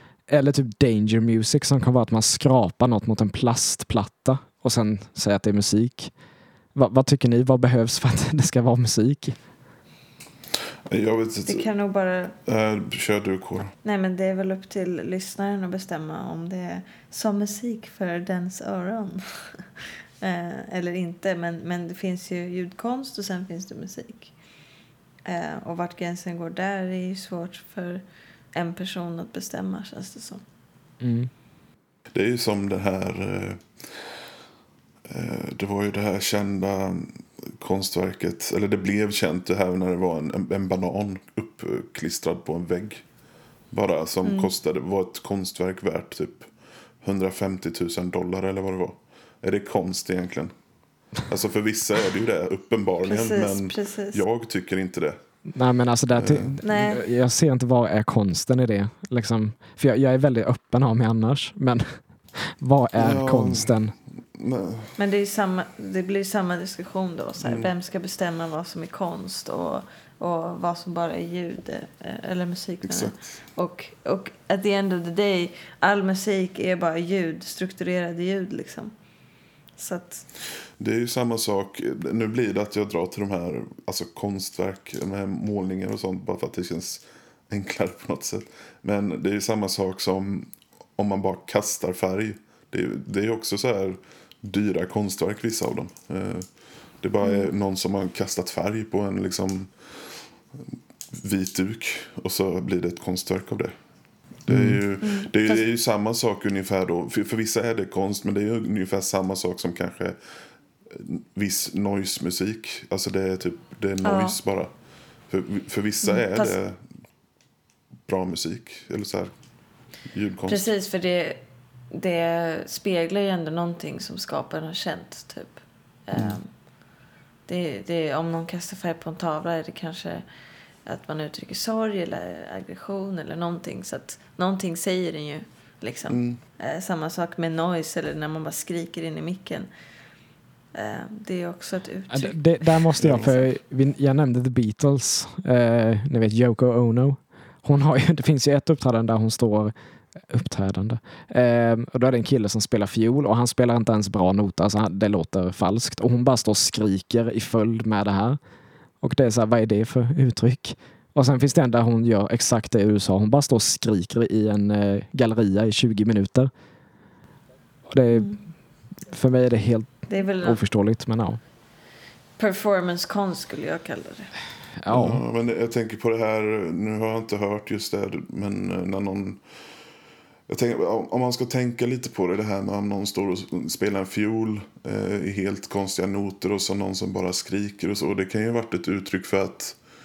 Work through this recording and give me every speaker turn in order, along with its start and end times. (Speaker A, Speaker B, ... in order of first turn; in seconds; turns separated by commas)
Speaker A: 0.3-6.1, Speaker A: 6.7-9.4, Speaker B: 10.9-11.7, Speaker C: 11.5-12.4, Speaker B: 12.4-13.7, Speaker C: 13.8-24.3, Speaker C: 25.2-28.0, Speaker C: 28.5-30.4, Speaker A: 31.0-31.3, Speaker B: 32.1-34.0, Speaker B: 35.1-43.1, Speaker B: 43.7-50.5, Speaker C: 44.2-44.5, Speaker B: 51.1-55.2, Speaker C: 53.0-54.2, Speaker A: 55.5-63.9, Speaker B: 56.1-56.6, Speaker C: 56.6-57.0, Speaker B: 63.0-63.7, Speaker B: 64.3-64.9, Speaker C: 65.0-78.9, Speaker B: 67.4-67.7, Speaker B: 72.8-73.3, Speaker C: 79.8-80.2, Speaker B: 80.8-100.2, Speaker C: 97.2-97.5, Speaker B: 101.1-103.7, Speaker B: 104.4-110.2, Speaker A: 104.5-104.8, Speaker C: 105.0-105.6, Speaker B: 110.9-114.7, Speaker C: 114.0-114.4, Speaker B: 115.3-116.8, Speaker C: 116.0-116.5, Speaker B: 118.0-119.3, Speaker B: 120.0-120.7, Speaker C: 120.5-126.6, Speaker C: 127.5-130.2, Speaker C: 130.9-139.7, Speaker B: 136.1-136.4, Speaker C: 140.7-143.4, Speaker A: 142.1-158.4, Speaker B: 143.0-143.3, Speaker A: 159.0-166.5, Speaker A: 167.9-168.4, Speaker C: 168.1-168.4, Speaker A: 169.0-171.4, Speaker C: 170.1-170.6, Speaker C: 172.4-174.3, Speaker A: 174.8-175.2, Speaker B: 174.9-179.4, Speaker B: 180.5-189.8